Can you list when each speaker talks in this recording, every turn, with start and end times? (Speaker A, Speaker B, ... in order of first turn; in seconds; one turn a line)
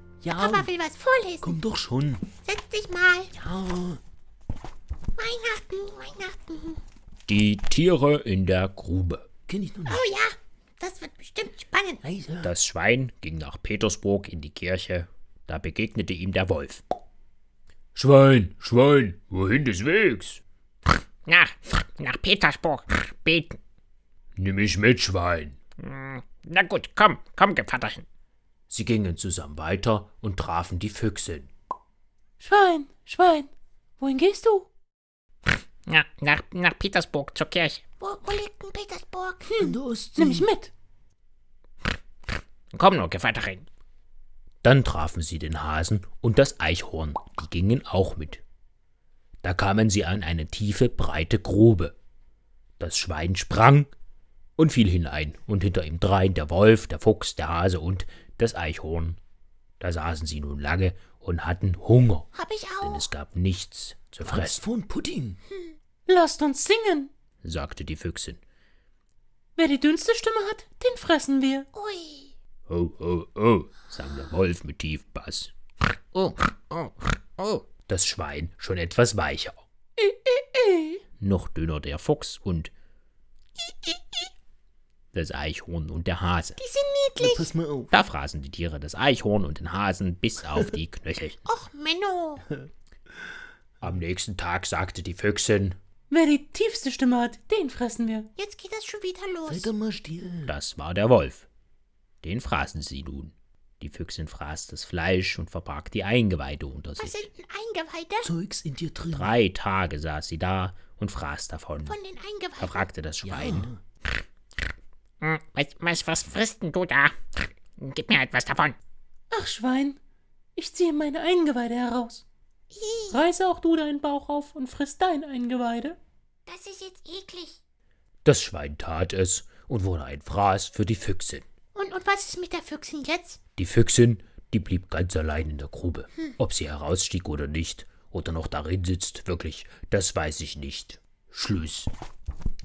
Speaker A: 0.2-0.7
Speaker B: 0.3-1.6
Speaker A: 1.4-2.2
Speaker B: 2.4-3.3
Speaker A: 3.3-4.0
Speaker B: 5.2-6.8
Speaker C: 7.3-9.2
Speaker A: 9.5-10.0
Speaker B: 9.9-12.0
Speaker A: 12.0-12.5
Speaker C: 12.4-16.8
Speaker C: 17.9-20.4
Speaker D: 21.3-23.6
Speaker C: 24.4-25.6
Speaker D: 25.8-28.1
Speaker C: 28.7-31.5
Speaker E: 32.4-34.7
Speaker D: 35.9-37.8
Speaker B: 38.0-39.6
Speaker E: 39.5-40.7
Speaker A: 39.6-40.5
Speaker D: 42.7-43.6
Speaker C: 44.6-48.4
Speaker C: 49.4-51.9
Speaker C: 52.8-53.9
Speaker C: 54.6-59.2
Speaker C: 59.8-62.3
Speaker B: 62.4-63.0
Speaker C: 62.8-64.6
Speaker A: 64.2-65.4
Speaker E: 66.0-67.1
Speaker C: 67.4-68.4
Speaker E: 69.5-71.7
Speaker B: 71.7-72.3
Speaker C: 72.7-75.5
Speaker D: 76.1-77.7
Speaker C: 77.9-79.6
Speaker E: 80.0-81.0
Speaker C: 81.2-82.7
Speaker C: 85.1-86.6
Speaker B: 86.6-87.5
Speaker A: 87.2-87.9
Speaker C: 87.9-91.4
Speaker B: 91.5-92.5
Speaker C: 93.8-95.8
Speaker E: 96.1-98.3
Speaker B: 98.3-99.7
Speaker A: 99.5-100.5
Speaker C: 100.5-101.5
Speaker C: 102.2-107.2
Speaker B: 107.0-108.3
Speaker A: 108.2-109.3
Speaker C: 109.1-112.0
Speaker B: 111.9-112.9
Speaker C: 112.6-113.7
Speaker A: 113.2-113.8
Speaker D: 115.2-118.8
Speaker E: 119.3-120.0
Speaker E: 120.5-122.2
Speaker B: 122.7-123.2
Speaker E: 123.1-126.0
Speaker B: 126.5-127.6
Speaker C: 128.2-131.4
Speaker B: 131.8-133.4
Speaker C: 133.6-141.9